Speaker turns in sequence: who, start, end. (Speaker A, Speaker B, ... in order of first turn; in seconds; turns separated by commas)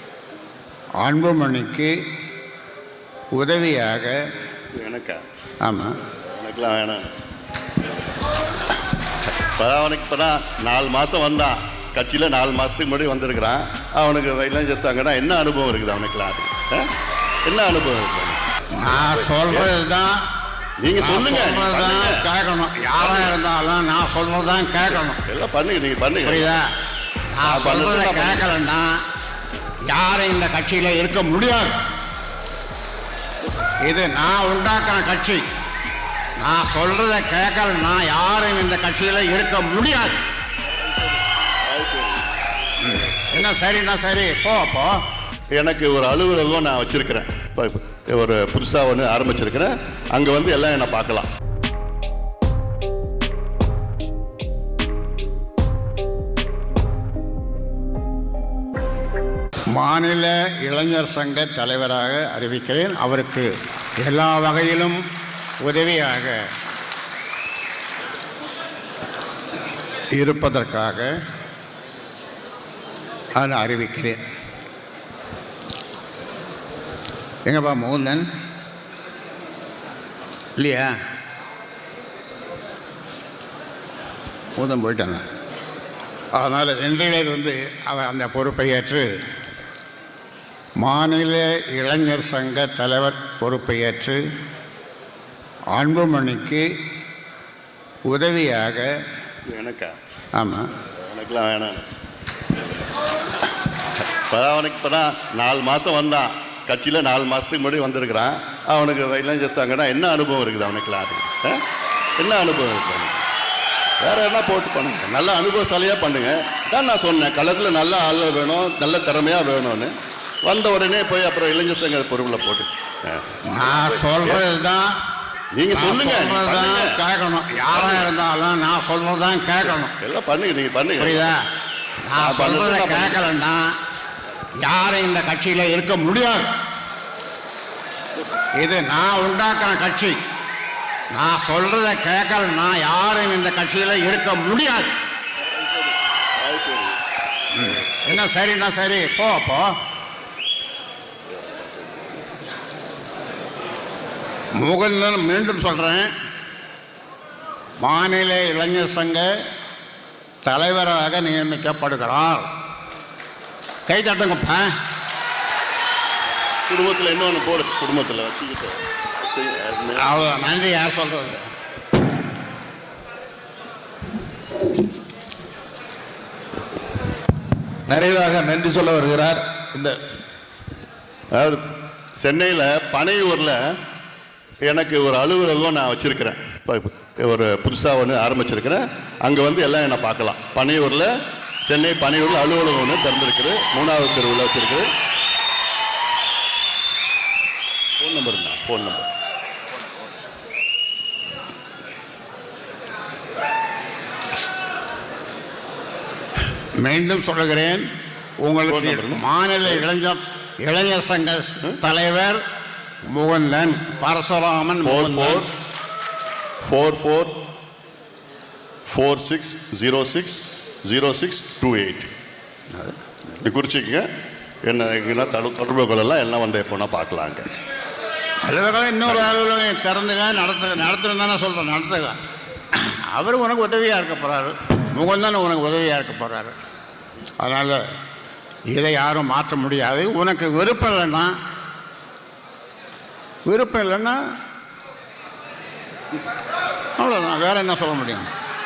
Speaker A: 1.0-1.9, Speaker A: 3.3-4.2, Speaker B: 4.7-5.2, Speaker A: 5.6-6.0, Speaker B: 6.3-7.1, Speaker B: 9.4-16.9, Speaker B: 17.4-19.7, Speaker A: 18.7-20.2, Speaker B: 20.8-22.3, Speaker A: 21.0-25.2, Speaker B: 23.0-23.4, Speaker B: 24.8-26.6, Speaker A: 26.2-26.7, Speaker A: 27.3-29.0, Speaker B: 27.4-28.6, Speaker A: 29.9-31.8, Speaker A: 33.8-35.4, Speaker A: 36.4-40.2, Speaker B: 41.6-42.2, Speaker A: 42.8-45.0, Speaker B: 45.5-51.3, Speaker A: 59.7-63.5, Speaker A: 64.0-65.0, Speaker A: 65.6-66.4, Speaker A: 70.1-71.1, Speaker A: 73.3-74.2, Speaker A: 77.5-78.2, Speaker A: 80.6-81.0, Speaker A: 84.5-85.2, Speaker A: 86.4-89.1, Speaker A: 90.8-94.2, Speaker A: 95.7-96.7, Speaker A: 98.1-98.9, Speaker B: 99.5-99.9, Speaker A: 100.4-100.7, Speaker B: 101.0-101.9, Speaker B: 104.1-111.6, Speaker B: 112.2-113.3, Speaker B: 114.0-119.9, Speaker B: 120.4-124.4, Speaker A: 123.5-125.0, Speaker B: 125.5-127.0, Speaker A: 125.7-129.9, Speaker B: 127.7-128.1, Speaker B: 129.9-131.3, Speaker A: 131.0-131.4, Speaker A: 132.1-133.7, Speaker B: 132.2-133.3, Speaker A: 134.6-136.5, Speaker A: 138.6-140.2, Speaker A: 141.1-144.9, Speaker B: 146.4-146.9, Speaker A: 147.5-149.7, Speaker A: 154.6-156.1, Speaker A: 157.8-159.3, Speaker A: 160.4-162.5, Speaker A: 163.9-164.7, Speaker B: 166.7-170.3, Speaker A: 170.0-171.4, Speaker C: 177.9-180.0, Speaker B: 181.3-181.6, Speaker B: 182.2-183.6, Speaker B: 184.7-191.1, Speaker B: 191.7-194.9, Speaker B: 198.0-199.1, Speaker A: 206.8-207.8, Speaker A: 208.4-212.4, Speaker B: 208.7-209.8, Speaker A: 213.1-215.5, Speaker B: 214.8-215.5, Speaker B: 216.6-217.3, Speaker B: 218.9-222.1, Speaker B: 222.7-224.1, Speaker B: 224.6-227.4, Speaker A: 228.4-232.2, Speaker B: 229.1-229.3, Speaker A: 232.7-236.6, Speaker A: 237.4-237.8, Speaker A: 238.7-241.3, Speaker A: 243.5-244.2, Speaker A: 247.0-248.3